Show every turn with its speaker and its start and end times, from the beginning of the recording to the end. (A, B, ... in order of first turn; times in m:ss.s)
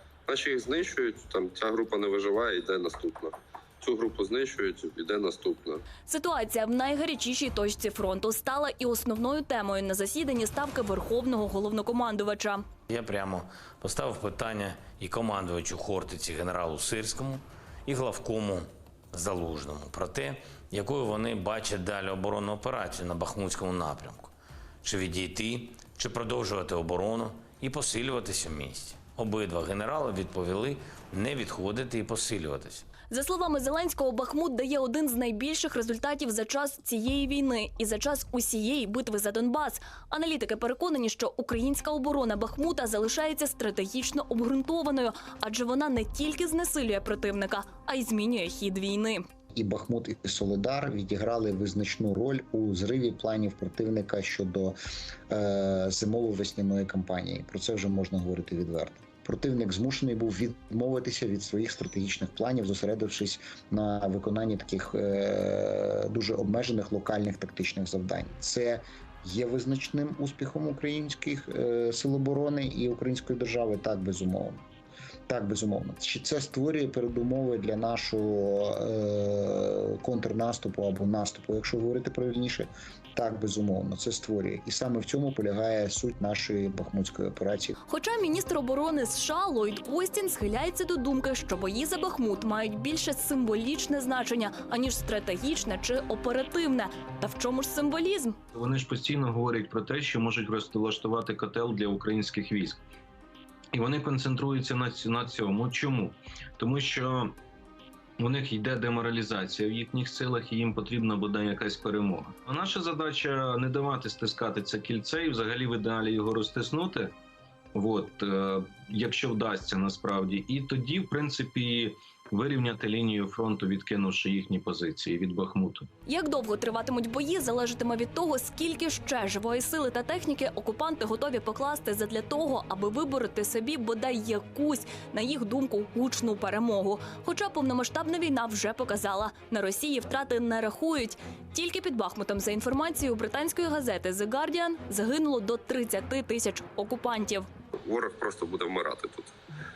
0:00.3-0:05.8 A
0:06.0-0:12.7 B
0:12.9-0:24.3 C
0:24.8-0:32.9 C
0:33.1-0:49.2 B
0:49.5-0:54.8 D
0:55.3-1:14.6 D
1:15.3-1:27.8 D
1:27.9-1:38.4 B
1:38.5-1:42.8 E
1:43.7-1:47.4 E
1:48.2-1:57.1 E
1:57.7-2:05.9 E
2:06.0-2:27.5 B
2:27.8-2:29.3 A